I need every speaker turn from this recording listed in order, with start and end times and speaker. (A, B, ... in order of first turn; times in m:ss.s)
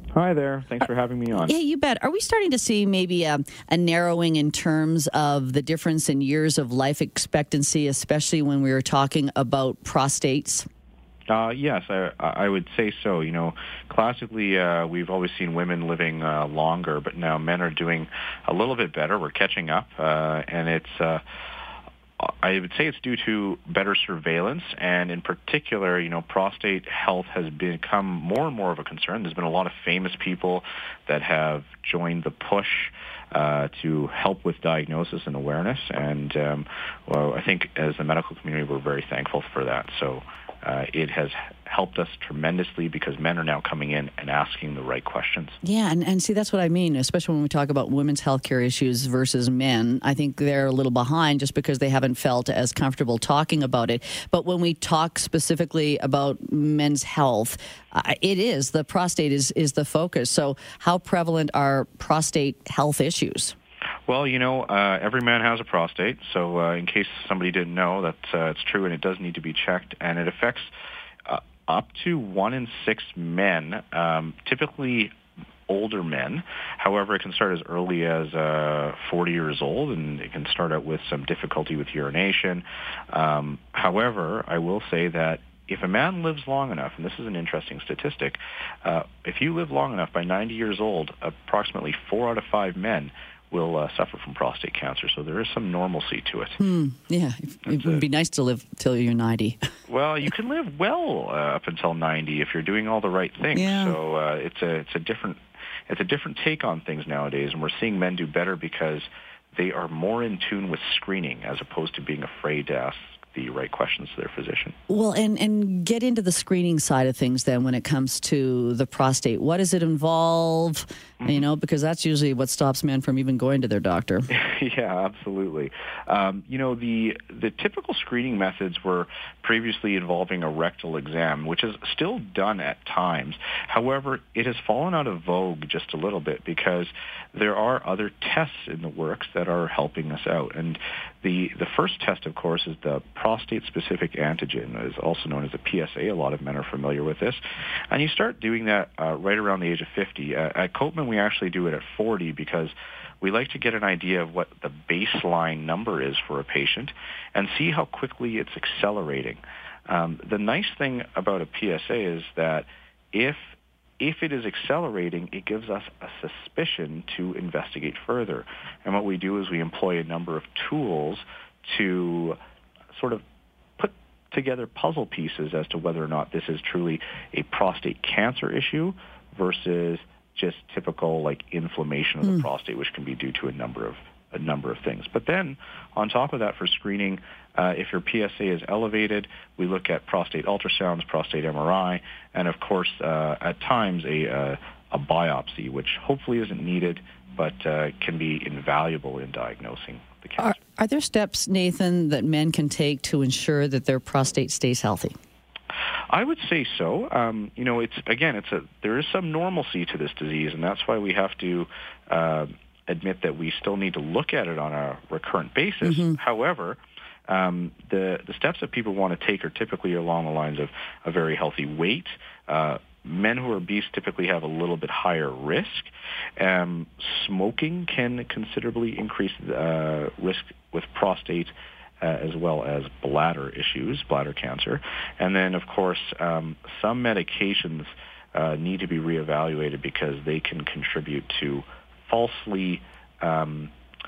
0:00.1-0:01.6 A
0:00.8-0:10.7 B
0:11.3-0:21.2 A
0:22.2-0:45.6 A
0:45.6-1:03.5 B
1:04.1-1:10.7 A
1:11.3-1:15.1 A
1:15.7-1:36.6 A
1:36.6-1:39.7 B
1:37.7-1:38.0 A
1:39.9-1:54.8 A
1:43.5-1:44.0 B
1:54.9-2:04.3 B
2:01.2-2:01.5 A
2:04.3-2:52.4 A
2:52.9-2:53.2 A
2:53.8-3:20.6 A
3:02.2-3:02.5 B
3:20.4-3:25.2 B
3:26.1-4:03.7 A
3:35.8-3:36.2 B